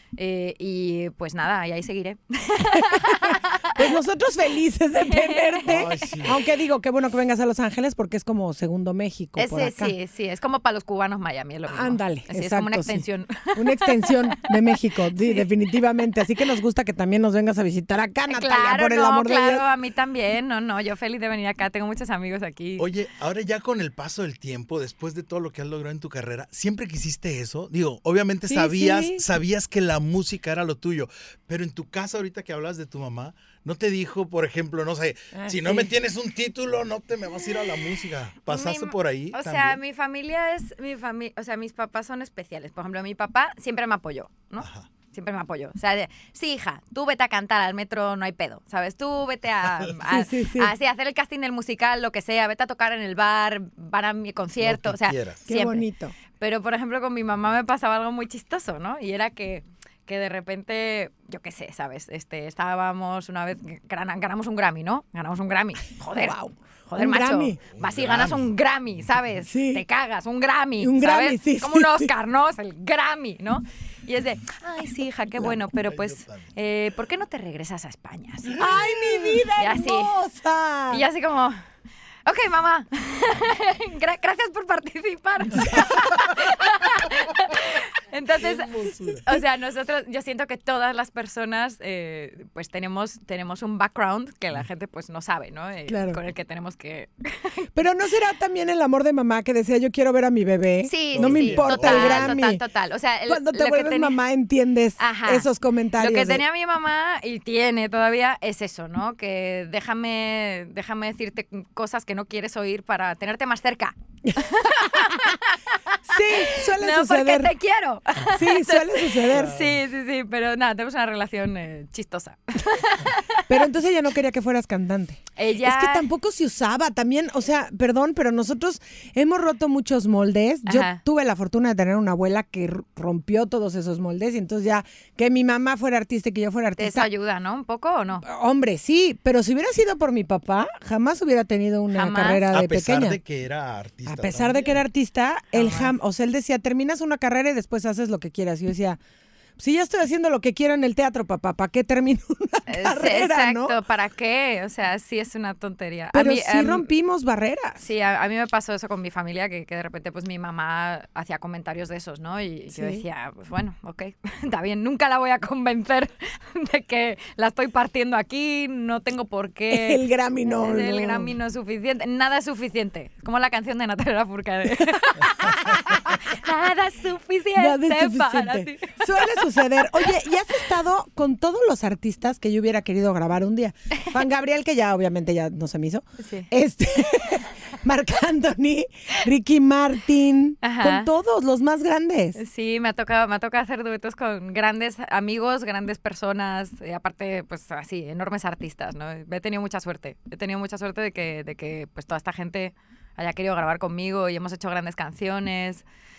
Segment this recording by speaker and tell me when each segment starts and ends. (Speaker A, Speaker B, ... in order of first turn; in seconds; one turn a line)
Speaker A: 0.2-3.9
Speaker B: 2.9-9.9
Speaker A: 5.0-5.7
Speaker C: 5.7-6.4
Speaker A: 9.4-15.4
Speaker B: 11.7-19.6
Speaker A: 18.3-22.9
Speaker C: 22.8-39.8
Speaker B: 28.5-29.2
Speaker B: 35.3-35.9
Speaker A: 38.5-55.9
Speaker C: 44.6-44.9
Speaker B: 50.1-50.7
Speaker C: 54.6-55.4
Speaker B: 55.5-56.1
Speaker A: 56.4-78.8
Speaker B: 66.1-67.6
Speaker C: 67.7-68.5
Speaker B: 69.5-69.8
Speaker B: 70.8-72.1
Speaker C: 75.7-76.5
Speaker B: 78.5-81.0
Speaker A: 79.6-80.2
Speaker A: 80.9-81.6
Speaker A: 82.2-97.7
Speaker B: 85.6-85.9
Speaker C: 85.7-86.2
Speaker C: 88.4-89.2
Speaker B: 95.9-96.2
Speaker B: 97.7-102.6
Speaker A: 100.8-104.2
Speaker C: 101.1-102.3
Speaker B: 103.3-106.4
Speaker A: 105.0-123.6
Speaker B: 114.2-115.1
Speaker B: 116.1-117.5
Speaker B: 118.3-119.5
Speaker C: 119.3-119.8
Speaker B: 123.5-137.1
Speaker A: 125.3-126.1
Speaker A: 130.7-131.0
Speaker A: 136.8-138.2
Speaker B: 138.2-143.2
Speaker A: 141.9-142.4
Speaker C: 142.5-144.8
Speaker B: 144.1-149.0
Speaker A: 145.5-145.9
Speaker B: 149.6-153.8
Speaker A: 152.7-156.9
Speaker B: 156.1-157.8
Speaker A: 157.8-180.1
Speaker B: 162.7-163.0
Speaker B: 169.7-171.3
Speaker B: 177.6-192.4
Speaker A: 186.2-186.5
Speaker A: 190.6-191.1
Speaker A: 192.3-205.8